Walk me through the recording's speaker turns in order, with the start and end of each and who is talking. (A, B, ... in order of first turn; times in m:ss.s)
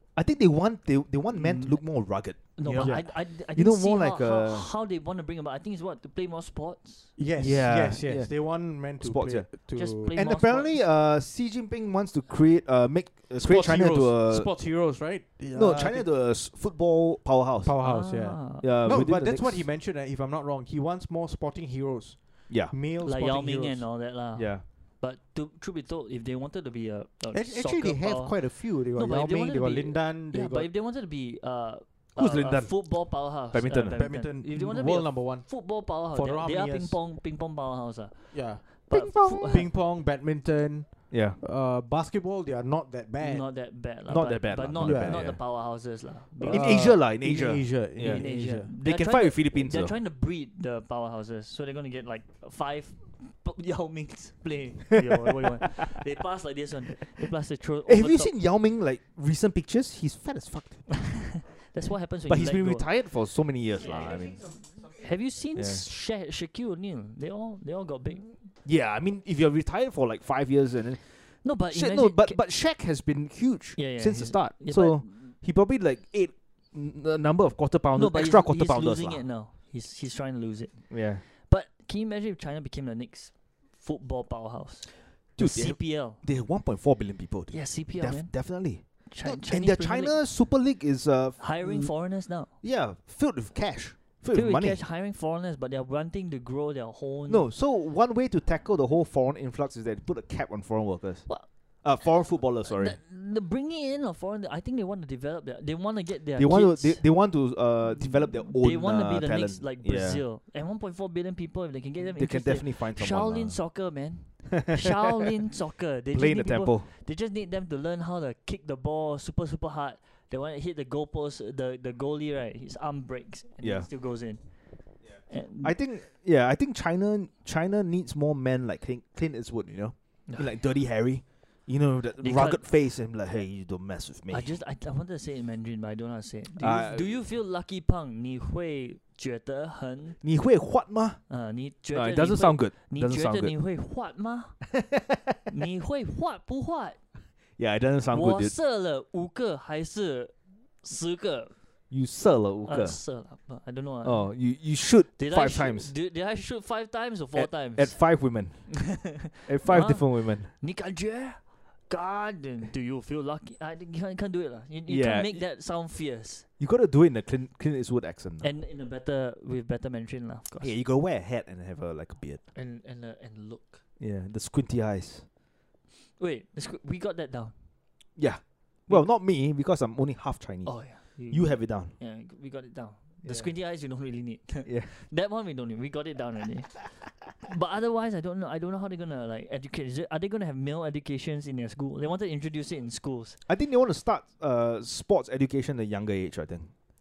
0:00.2-0:04.7 A
0:01.3-0:07.2 B
0:02.8-0:03.1 C
0:07.2-0:10.2 C
0:07.4-0:15.0 A
0:09.7-0:10.8 B
0:13.4-0:16.1 C
0:15.5-0:17.8 A
0:17.6-0:23.9 C
0:17.8-0:18.7 B
0:18.6-0:19.7 A
0:22.5-0:22.7 A
0:23.0-0:39.7 B
0:24.4-0:24.6 A
0:27.3-0:30.7 C
0:32.2-0:34.0 A
0:34.0-0:37.0 C
0:38.3-0:43.4 C
0:38.9-0:39.6 A
0:41.1-0:41.4 A
0:43.2-0:47.0 B
0:43.8-0:45.5 A
0:44.8-0:45.4 C
0:46.4-0:50.0 A
0:46.4-0:48.7 C
0:48.0-0:58.3 B
0:57.9-1:01.5 A
1:01.0-1:02.9 B
1:02.3-1:04.8 A
1:03.9-1:08.4 B
1:05.6-1:05.9 A
1:08.6-1:19.3 A
1:11.4-1:12.4 B
1:13.8-1:15.1 B
1:18.0-1:26.2 B
1:20.9-1:21.2 A
1:25.4-1:34.8 A
1:27.5-1:30.2 B
1:31.4-1:32.5 B
1:34.3-1:37.5 B
1:37.3-1:43.0 A
1:41.3-1:47.3 B
1:46.4-1:50.2 A
1:48.0-2:05.8 B
1:52.2-1:53.6 A
1:54.6-1:54.9 A
1:56.1-1:56.9 A
2:03.6-2:03.9 A
2:05.3-2:14.6 A
2:12.2-2:12.7 B
2:14.3-2:20.2 B
2:16.6-2:17.3 A
2:20.2-2:21.3 A
2:21.3-2:24.8 B
2:21.9-2:23.6 A
2:25.5-2:27.0 B
2:27.6-2:28.6 A
2:28.1-2:31.6 B
2:31.9-2:33.1 A
2:32.7-2:34.6 B
2:34.0-2:36.0 A
2:35.2-2:46.5 B
2:37.4-2:40.5 A
2:44.9-2:45.5 A
2:46.6-2:48.5 A
2:48.4-2:50.7 B
2:50.6-2:52.4 A
2:52.5-2:53.8 B
2:54.0-2:55.3 A
2:56.0-2:57.6 B
2:58.2-3:02.0 A
3:00.6-3:13.4 B
3:03.2-3:03.6 A
3:04.6-3:05.0 A
3:13.5-3:16.7 A